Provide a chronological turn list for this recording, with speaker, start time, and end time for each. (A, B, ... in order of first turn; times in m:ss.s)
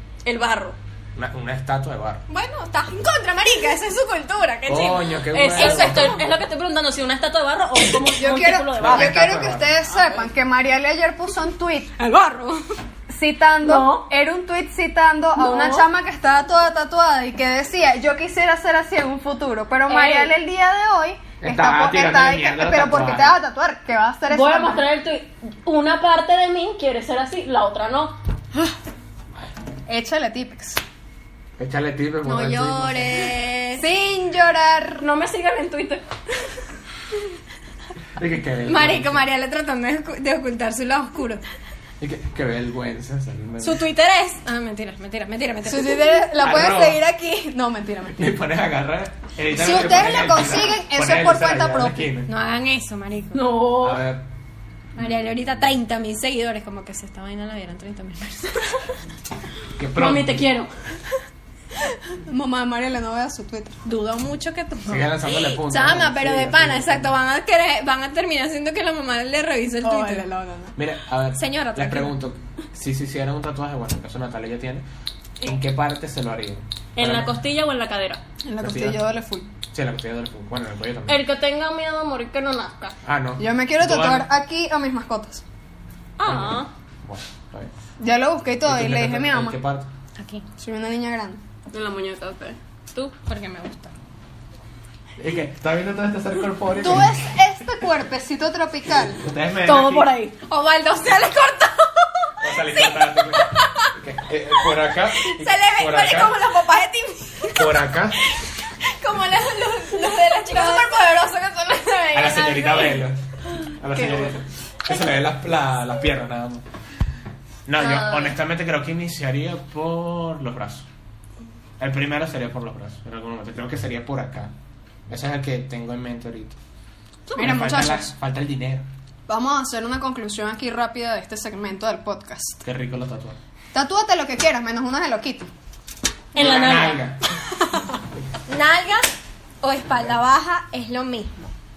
0:00.2-0:00.8 A
0:01.1-0:02.2 B
0:02.3-0:06.2 C
0:04.6-0:06.2 B
0:05.3-0:10.3 A
0:08.1-0:11.9 D
0:08.7-0:09.7 B
0:12.0-0:12.6 C
0:13.1-0:24.8 D
0:13.6-0:14.1 A
0:15.3-0:15.9 A
0:19.8-0:20.3 A
0:21.4-0:23.4 B
0:24.3-0:28.2 A
0:29.9-0:30.8 D
0:31.6-0:33.3 B
0:32.2-0:33.8 C
0:33.8-0:35.0 D
0:35.0-0:36.0 A
0:38.2-0:39.2 B
0:38.6-0:41.4 C
0:42.0-0:43.8 B
0:43.6-0:46.3 C
0:45.6-0:48.4 D
0:46.4-0:47.0 B
0:48.2-0:52.3 B
0:49.5-0:52.1 D
0:52.2-0:53.4 C
0:53.3-0:54.0 A
0:53.8-0:54.2 B
0:55.0-0:58.8 C
0:55.0-0:55.5 B
0:59.8-1:00.4 B
0:59.9-1:00.7 A
1:02.2-1:03.8 D
1:03.8-1:10.2 C
1:04.8-1:07.1 B
1:09.8-1:10.7 D
1:10.8-1:14.8 B
1:11.3-1:12.1 C
1:15.4-1:17.3 B
1:17.0-1:18.2 A
1:18.4-1:19.5 D
1:18.6-1:19.0 B
1:19.7-1:21.2 B
1:21.1-1:22.9 A
1:23.0-1:24.3 B
1:23.4-1:25.4 D
1:26.2-1:26.7 A
1:26.2-1:27.7 B
1:28.0-1:29.6 D
1:28.6-1:29.9 B
1:30.2-1:30.4 C
1:30.6-1:31.4 D
1:31.7-1:33.1 A
1:33.2-1:33.9 C
1:35.2-1:37.3 B
1:36.8-1:39.2 D
1:39.2-1:40.1 B
1:39.6-1:40.3 A
1:40.5-1:43.9 C
1:42.4-1:46.4 B
1:45.1-1:47.8 C
1:47.5-1:48.2 B
1:49.0-1:53.1 C
1:50.5-1:50.9 D
1:52.1-1:53.2 B
1:53.8-1:56.6 B
1:53.9-1:54.4 D
1:57.6-2:00.9 B
1:57.8-1:58.4 A
2:01.8-2:04.5 B
2:05.1-2:06.6 B
2:07.3-2:08.1 D
2:07.4-2:08.8 B
2:09.3-2:12.6 D
2:12.6-2:13.4 B
2:13.7-2:15.5 D
2:16.3-2:17.0 A
2:16.4-2:17.2 B
2:18.5-2:21.5 C